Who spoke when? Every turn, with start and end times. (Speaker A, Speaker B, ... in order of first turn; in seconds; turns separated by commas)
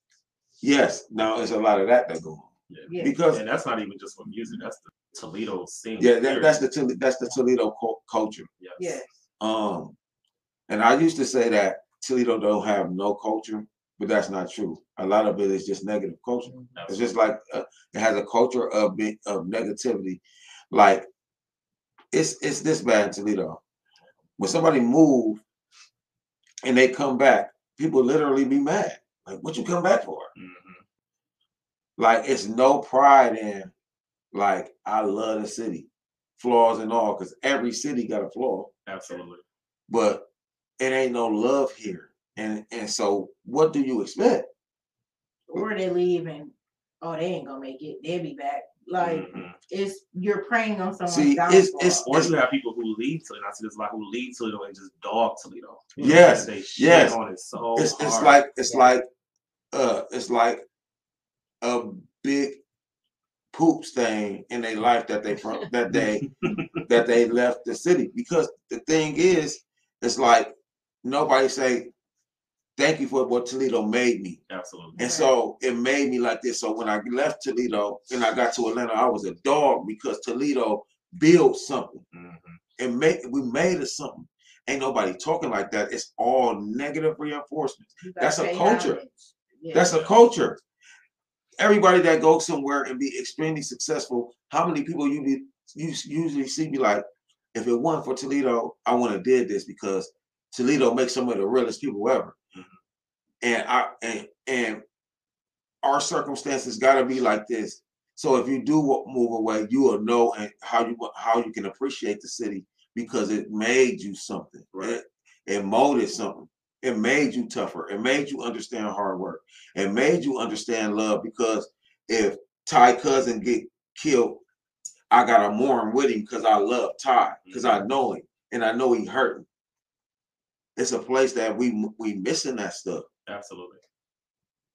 Speaker A: 0.6-3.4, Speaker B: 2.7-6.6, Speaker C: 2.9-3.1, Speaker A: 6.0-8.5, Speaker B: 8.6-9.0, Speaker C: 8.8-9.1, Speaker A: 9.4-9.9, Speaker A: 10.7-21.1, Speaker B: 16.7-17.1, Speaker A: 22.1-23.6, Speaker A: 24.4-25.4, Speaker A: 26.6-30.3, Speaker B: 30.4-30.8, Speaker A: 32.0-33.7, Speaker A: 34.3-38.7, Speaker B: 38.9-39.4, Speaker A: 39.9-40.2, Speaker A: 40.8-44.5, Speaker C: 45.5-52.0, Speaker B: 49.0-49.6, Speaker A: 51.0-52.3, Speaker B: 52.0-58.4, Speaker A: 56.0-57.2, Speaker A: 57.8-59.0, Speaker A: 59.7-60.6, Speaker A: 61.6-62.6, Speaker A: 63.5-66.3, Speaker A: 66.8-70.5, Speaker A: 71.0-71.9, Speaker A: 72.8-74.4, Speaker B: 74.5-75.0, Speaker A: 75.0-82.0, Speaker C: 75.0-75.3, Speaker B: 82.1-82.6, Speaker A: 82.8-89.0, Speaker C: 88.0-89.9, Speaker A: 89.7-90.6, Speaker B: 89.9-90.1, Speaker A: 91.6-102.3, Speaker B: 102.5-102.8, Speaker A: 103.4-104.8, Speaker A: 105.8-124.4, Speaker B: 114.7-115.0, Speaker A: 125.1-129.4, Speaker B: 127.5-127.8, Speaker A: 130.8-133.1, Speaker B: 133.3-133.8